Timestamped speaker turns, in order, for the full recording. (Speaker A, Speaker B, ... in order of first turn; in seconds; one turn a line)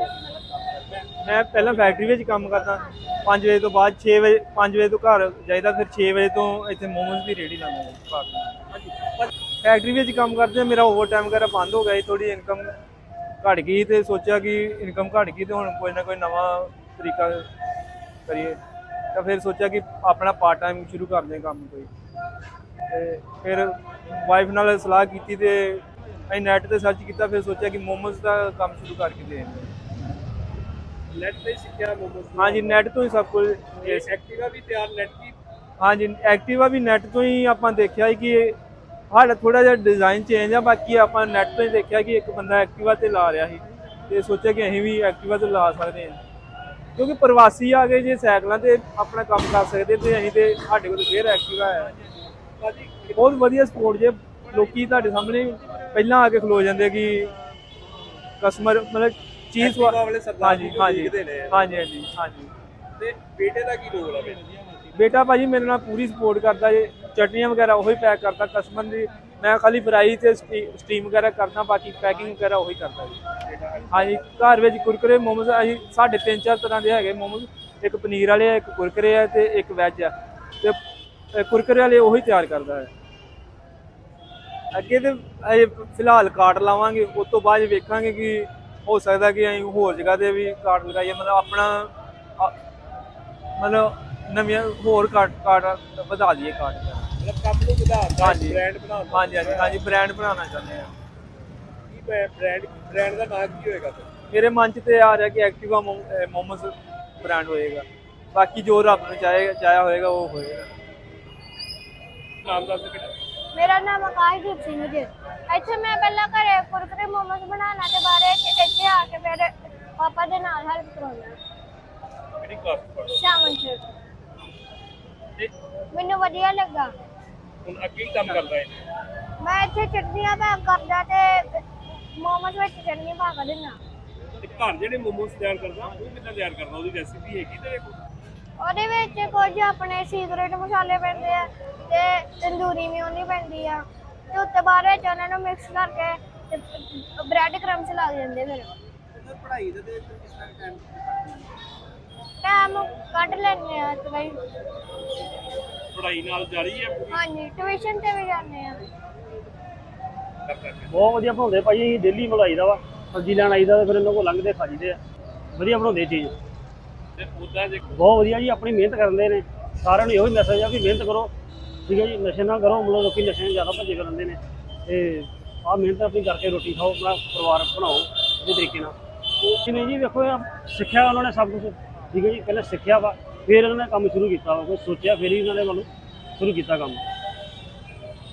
Speaker A: 1.2-8.6
Speaker B: 8.7-9.3
Speaker A: 9.6-12.7
Speaker A: 13.4-17.5
Speaker A: 18.3-18.6
Speaker A: 19.1-21.9
Speaker A: 22.9-29.7
Speaker B: 31.1-32.8
Speaker A: 32.4-34.1
Speaker B: 33.8-35.3
Speaker A: 35.8-38.6
Speaker A: 39.1-46.2
Speaker A: 47.0-52.0
Speaker B: 52.6-53.4
Speaker A: 53.1-57.3
Speaker A: 58.4-62.5
Speaker B: 59.6-61.6
Speaker B: 63.0-64.5
Speaker A: 64.9-73.2
Speaker B: 73.4-74.2
Speaker A: 73.9-80.8
Speaker A: 81.3-82.9
Speaker A: 84.7-92.5
Speaker A: 93.6-97.1
Speaker B: 97.2-99.8
Speaker A: 98.2-100.9
Speaker B: 101.9-104.1
Speaker A: 104.3-110.7
Speaker B: 112.4-113.2
Speaker C: 113.5-121.4
Speaker B: 122.4-123.2
Speaker C: 123.1-123.9
Speaker C: 125.9-126.9
Speaker B: 127.6-128.8
Speaker C: 129.4-133.8
Speaker B: 134.4-137.9
Speaker C: 138.6-148.7
Speaker B: 149.1-151.5
Speaker C: 152.4-154.4
Speaker B: 155.9-157.2
Speaker C: 157.1-158.8
Speaker B: 160.4-161.0
Speaker D: 160.9-165.0
Speaker D: 165.5-166.3
Speaker B: 167.1-167.8
Speaker D: 167.9-171.3
Speaker D: 171.9-187.0